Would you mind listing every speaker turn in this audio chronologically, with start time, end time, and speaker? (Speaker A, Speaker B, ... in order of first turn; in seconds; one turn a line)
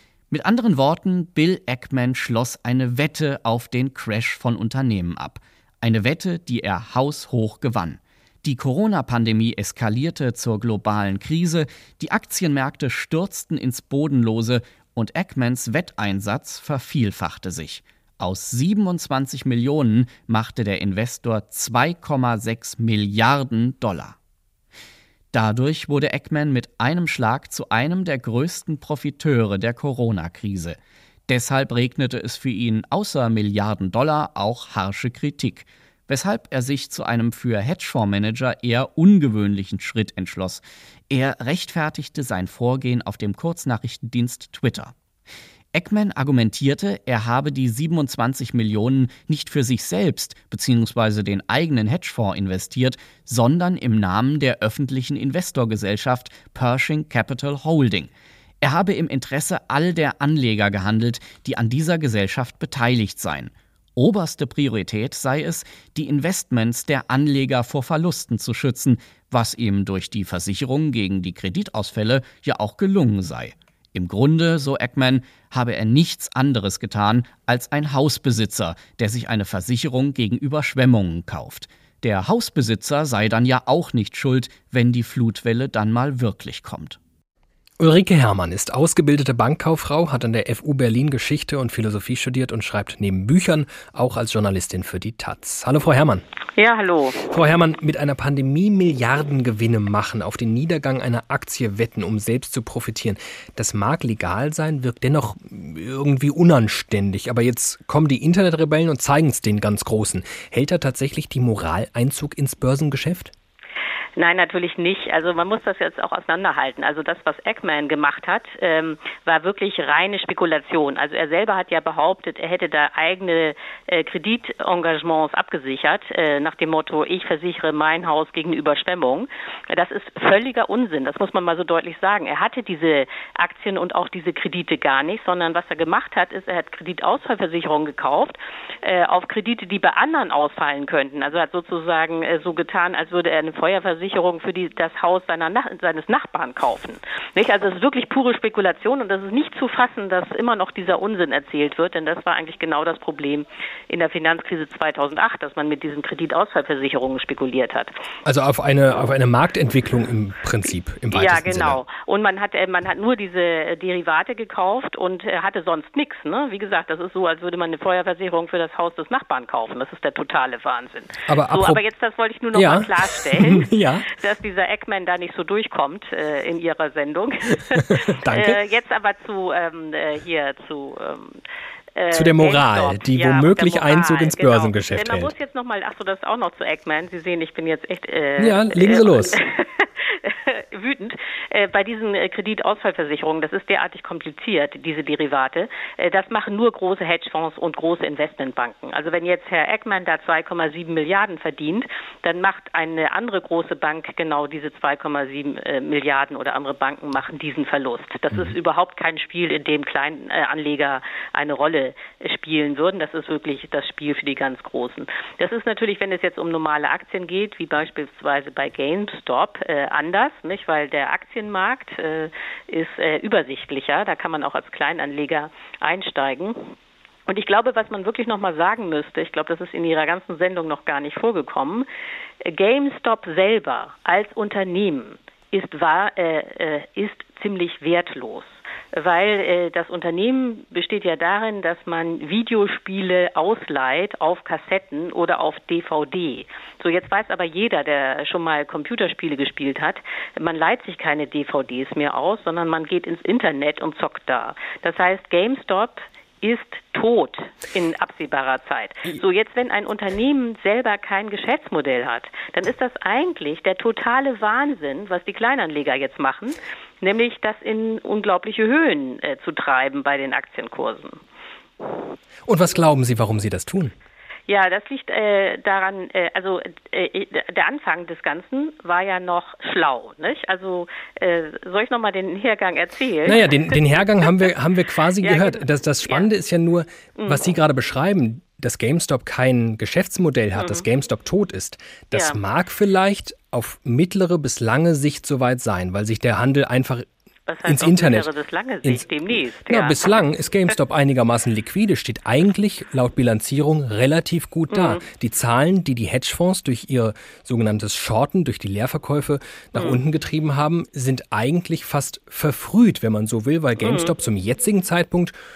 Speaker A: 0.3-24.1
Speaker A: 25.3-44.9
Speaker A: 45.7-58.1
Speaker A: 58.6-87.0
Speaker B: 87.8-96.2
Speaker C: 96.6-97.2
Speaker B: 97.3-113.3
Speaker C: 114.2-157.9
Speaker B: 158.2-161.8
Speaker C: 161.1-173.7
Speaker B: 171.3-171.8
Speaker B: 172.5-174.1
Speaker C: 174.2-181.4
Speaker B: 177.9-178.6
Speaker C: 181.9-226.6
Speaker B: 182.1-185.3
Speaker B: 188.4-189.4
Speaker C: 227.3-231.9
Speaker C: 232.4-271.2
Speaker B: 272.5-273.9
Speaker C: 274.5-284.5
Speaker B: 283.2-297.1
Speaker C: 285.2-286.3
Speaker C: 287.2-287.4
Speaker C: 290.5-290.9
Speaker C: 292.1-292.4
Speaker C: 297.5-300.1
Speaker B: 297.6-298.3
Speaker B: 298.8-315.3
Speaker C: 304.7-305.0
Speaker C: 309.7-310.0
Speaker C: 313.8-314.1